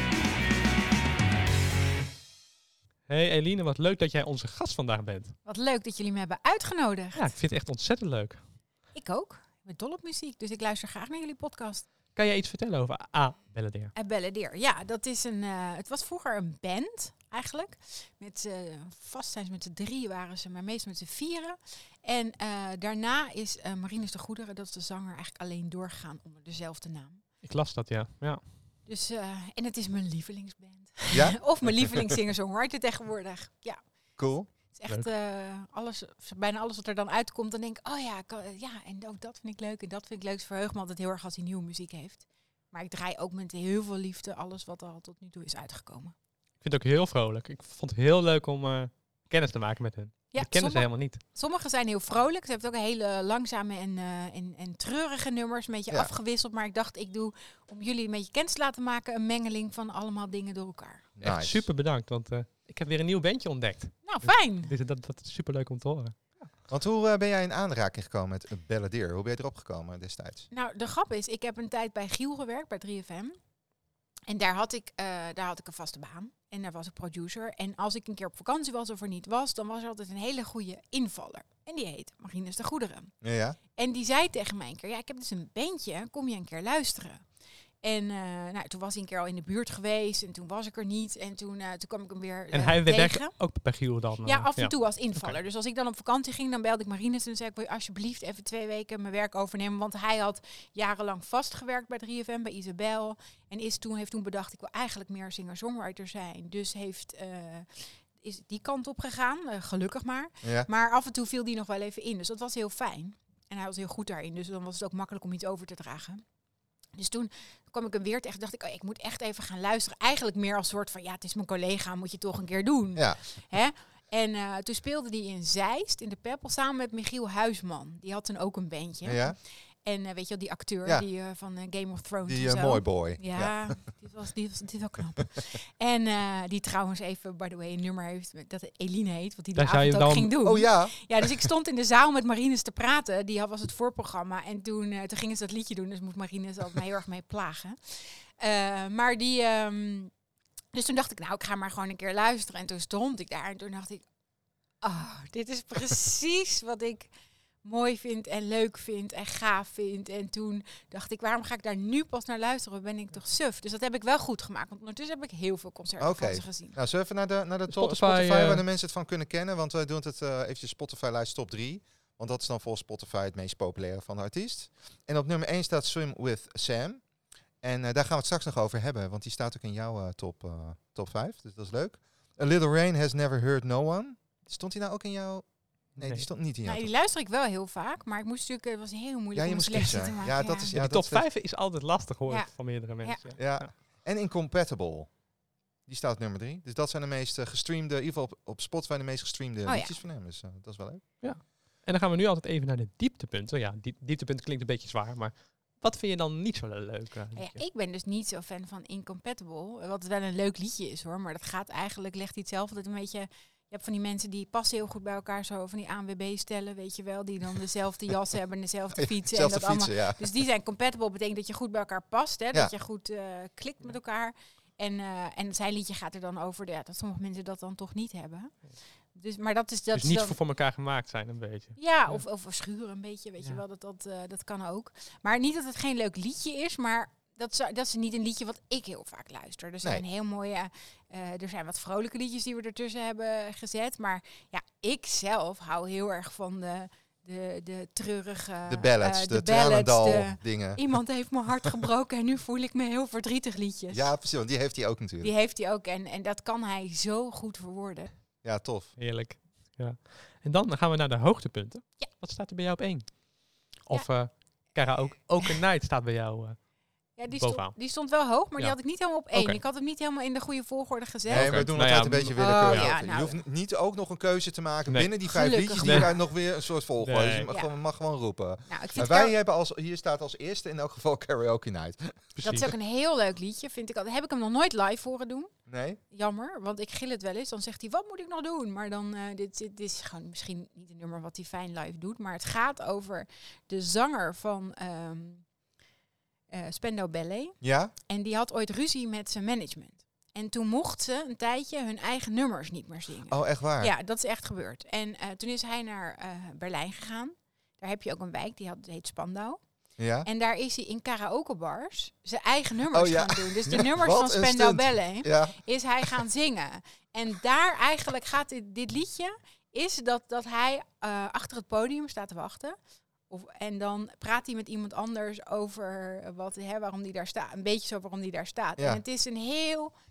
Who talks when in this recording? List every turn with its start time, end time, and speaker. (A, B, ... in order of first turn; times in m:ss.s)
0:03.1-0:05.4 A
0:05.4-0:07.2 B
0:07.1-0:08.4 A
0:08.9-0:11.8 B
0:12.1-0:13.9 A
0:13.9-0:27.2 B
0:27.4-0:28.4 A
0:28.9-0:33.8 B
0:31.1-0:32.0 C
0:34.2-0:34.5 C
0:34.5-0:46.1 B
0:46.6-0:51.2 A
0:50.3-1:01.2 B
1:01.2-1:01.7 C
1:01.2-1:06.5 A
1:04.0-1:04.7 B
1:06.7-1:10.5 C
1:10.5-1:13.4 B
1:14.3-1:23.1 B
1:23.2-1:23.6 C
1:23.7-1:27.2 B
1:27.8-1:33.3 B
1:32.5-1:35.4 A
1:34.2-1:56.2 B
1:50.4-1:50.7 C
1:57.0-2:30.1 B
2:09.0-2:09.4 C
2:12.2-2:13.8 C
2:19.5-2:20.3 A
2:20.4-2:21.5 C
2:30.7-2:34.0 B
2:34.8-2:46.8 B
2:46.0-2:57.0 C
2:47.7-2:48.6 A
2:57.6-3:06.9 C
3:06.0-3:06.3 A
3:06.6-3:10.8 B
3:09.3-3:11.3 C
3:10.7-3:13.7 A
3:12.3-3:13.4 B
3:13.4-3:15.2 C
3:15.8-3:21.2 C
3:19.6-3:20.0 B
3:21.2-3:27.6 A
3:27.3-3:48.6 B
3:38.9-3:40.3 C
3:49.1-3:50.4 B
3:49.9-3:52.2 A
3:51.8-4:14.2 B
4:08.7-4:11.0 C
4:13.9-4:15.3 C
4:15.2-4:18.2 B
4:18.4-4:19.0 C
4:19.0-4:26.6 A
4:27.2-4:33.4 B
4:27.3-4:27.7 A
4:29.3-4:29.6 A
4:31.3-4:33.0 A
4:31.3-4:42.6 C
4:34.8-4:35.1 A
4:35.2-4:36.1 B
4:35.8-4:36.1 A
4:37.0-4:37.5 A
4:37.5-4:37.7 B
4:38.7-4:39.3 B
4:42.3-4:42.7 A
4:42.4-4:45.5 B
4:45.7-4:46.0 C
4:46.1-4:55.4 B
4:56.5-5:09.6 B
4:57.6-4:57.9 C
5:03.3-5:03.9 C
5:10.0-5:10.3 C
5:10.2-5:22.8 B
5:12.9-5:16.2 C
5:23.3-5:29.9 B
5:28.8-5:29.0 C